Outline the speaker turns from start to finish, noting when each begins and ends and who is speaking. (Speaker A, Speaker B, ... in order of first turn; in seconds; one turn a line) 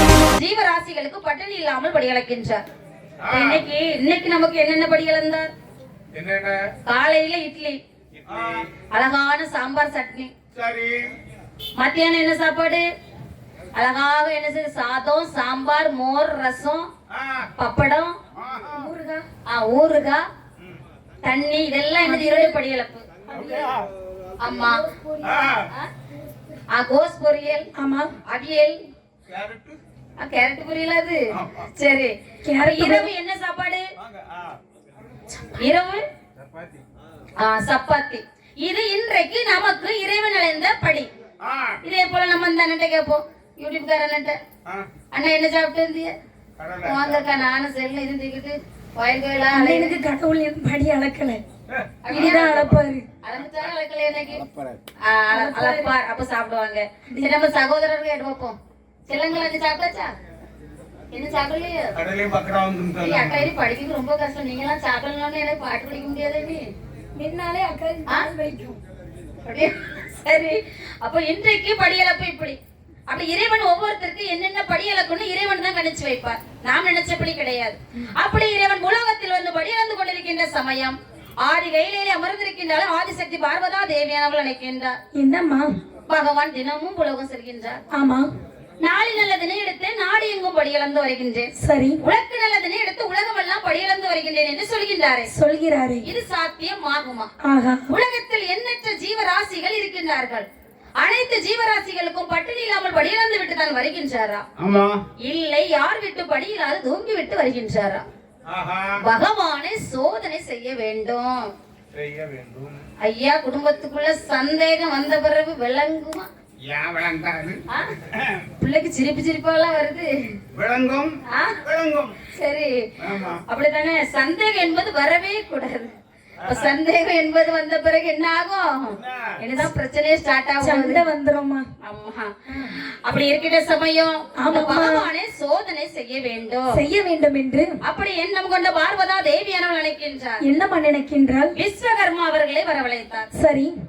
Speaker A: 0.3-2.6
Speaker B: 3.2-3.6
Speaker A: 3.3-5.5
Speaker B: 6.1-6.7
Speaker A: 6.9-7.8
Speaker B: 8.3-8.7
Speaker A: 8.9-10.3
Speaker B: 10.5-11.1
Speaker A: 11.8-12.9
Speaker A: 13.7-16.9
Speaker B: 17.1-17.5
Speaker A: 17.6-18.2
Speaker B: 18.4-18.9
Speaker C: 18.8-19.2
Speaker A: 19.5-20.2
Speaker A: 21.2-23.1
Speaker C: 22.0-22.6
Speaker C: 23.3-23.7
Speaker B: 23.4-23.9
Speaker A: 24.4-24.9
Speaker C: 24.6-25.5
Speaker B: 25.2-25.7
Speaker A: 26.7-27.7
Speaker C: 27.8-28.1
Speaker A: 28.3-28.8
Speaker B: 29.3-29.8
Speaker A: 30.2-33.9
Speaker B: 31.3-31.6
Speaker C: 32.5-33.1
Speaker B: 34.0-34.6
Speaker A: 35.5-36.0
Speaker B: 36.4-36.8
Speaker A: 37.4-41.1
Speaker B: 41.4-41.8
Speaker A: 41.8-44.4
Speaker A: 45.1-46.1
Speaker B: 46.6-47.3
Speaker A: 46.8-50.0
Speaker C: 49.5-51.4
Speaker B: 51.7-52.5
Speaker A: 52.0-54.5
Speaker C: 52.1-53.1
Speaker A: 55.0-58.6
Speaker C: 55.3-55.9
Speaker C: 57.1-57.4
Speaker A: 59.1-60.1
Speaker A: 61.1-61.9
Speaker B: 61.9-63.5
Speaker A: 63.0-66.7
Speaker C: 67.2-68.8
Speaker A: 69.5-85.0
Speaker C: 85.1-85.7
Speaker A: 86.1-87.8
Speaker C: 87.9-88.3
Speaker A: 88.8-91.5
Speaker C: 91.6-92.0
Speaker A: 92.0-95.3
Speaker C: 95.3-96.1
Speaker A: 96.0-97.3
Speaker C: 97.4-97.8
Speaker A: 97.9-100.5
Speaker A: 101.0-104.5
Speaker B: 104.6-105.0
Speaker A: 105.2-108.0
Speaker B: 108.5-109.0
Speaker A: 109.0-111.5
Speaker B: 111.9-112.8
Speaker A: 113.0-116.3
Speaker B: 116.6-118.5
Speaker A: 118.6-120.1
Speaker B: 120.5-122.2
Speaker A: 121.3-121.6
Speaker A: 122.3-131.0
Speaker B: 123.0-123.4
Speaker B: 128.9-129.4
Speaker C: 130.6-131.7
Speaker A: 131.8-136.7
Speaker C: 132.5-132.8
Speaker C: 134.4-135.1
Speaker C: 136.7-137.8
Speaker A: 137.8-140.4
Speaker C: 140.4-141.5
Speaker A: 141.5-143.3
Speaker C: 143.3-143.7